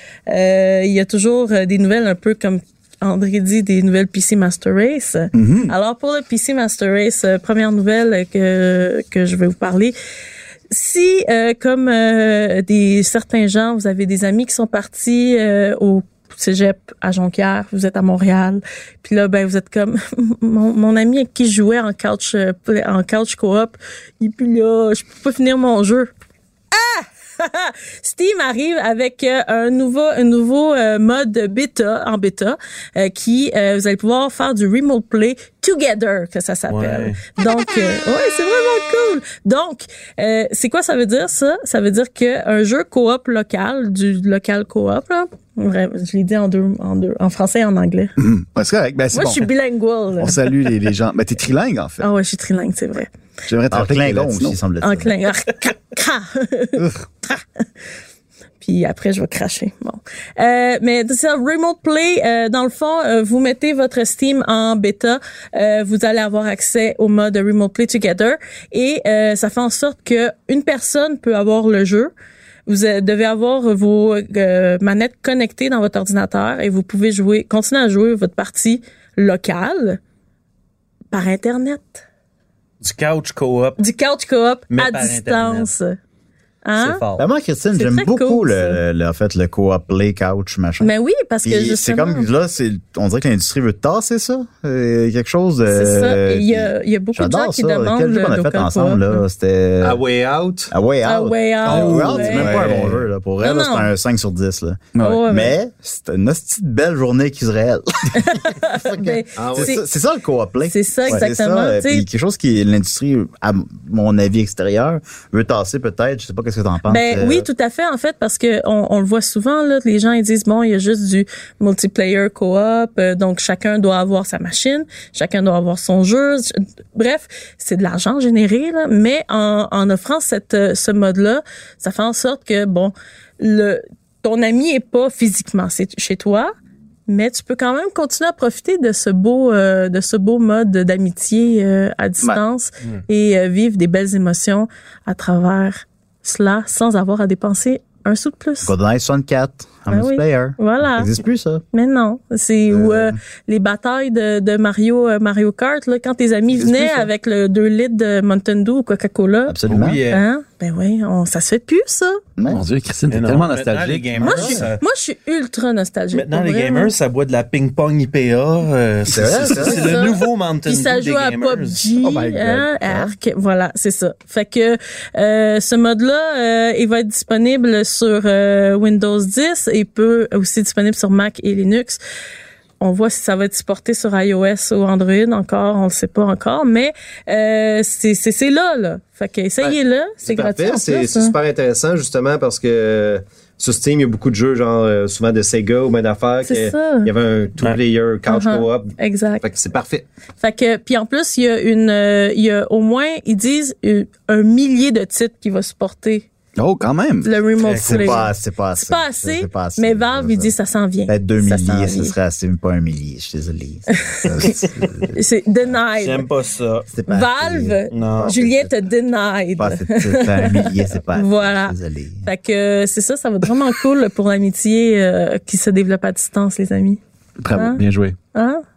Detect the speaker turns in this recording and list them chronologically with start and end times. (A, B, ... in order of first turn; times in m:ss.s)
0:00.3-0:10.0 A
0:05.3-0:05.7 B
0:10.7-0:26.1 A
0:26.7-0:48.1 A
0:36.7-0:37.2 C
0:48.2-0:49.5 B
0:49.1-0:50.6 A
0:50.2-0:52.1 B
0:52.0-0:53.1 A
0:53.5-0:54.6 B
0:53.7-0:55.1 D
0:54.8-0:57.6 A
0:58.6-1:12.1 A
1:12.6-1:20.0 A
1:21.1-1:22.0 A
1:22.8-1:23.8 C
1:23.8-1:26.0 A
1:24.7-1:25.7 C
1:26.6-1:27.0 A
1:26.7-1:27.2 C
1:27.2-1:30.9 D
1:27.7-1:28.8 A
1:30.8-1:32.3 A
1:31.4-1:40.0 D
1:35.7-1:39.2 A
1:39.8-1:40.7 E
1:40.7-1:57.5 D
1:41.0-1:42.6 A
1:41.6-1:43.0 B
1:41.7-1:42.7 E
1:43.4-1:43.9 A
1:44.9-1:45.2 B
1:45.0-1:45.6 A
1:48.1-1:49.8 A
1:49.4-1:49.7 E
1:50.7-1:52.0 A
1:56.9-2:16.5 A
2:17.1-2:28.7 A
2:28.6-2:31.6 D
2:29.9-2:31.1 A
2:31.7-2:42.2 A
2:32.7-2:33.2 D
2:36.6-2:37.1 B
2:39.5-2:40.0 D
2:39.6-2:40.2 C
2:42.4-2:42.6 D
2:42.5-2:44.4 B
2:43.1-2:44.8 C
2:44.2-2:44.6 D
2:44.2-2:46.9 A
2:46.1-2:52.0 C
2:49.1-2:50.0 D
2:49.5-3:02.0 A
2:52.0-2:53.1 B
3:02.8-3:11.4 A
3:09.6-3:20.0 E
3:16.4-3:17.1 A
3:18.3-3:19.4 A
3:20.4-3:26.3 A
3:26.6-3:27.4 B
3:27.2-3:32.1 A
3:27.6-3:28.2 C
3:27.8-3:30.6 D
3:31.1-3:35.0 D
3:33.9-3:36.3 A
3:34.2-3:34.5 B
3:34.6-3:34.9 C
3:35.9-3:36.9 C
3:36.9-3:38.7 D
3:37.1-3:47.0 A
3:37.9-3:38.4 C
3:39.6-3:42.2 D
3:47.4-3:48.2 B
3:47.5-3:47.8 A
3:48.3-3:48.6 A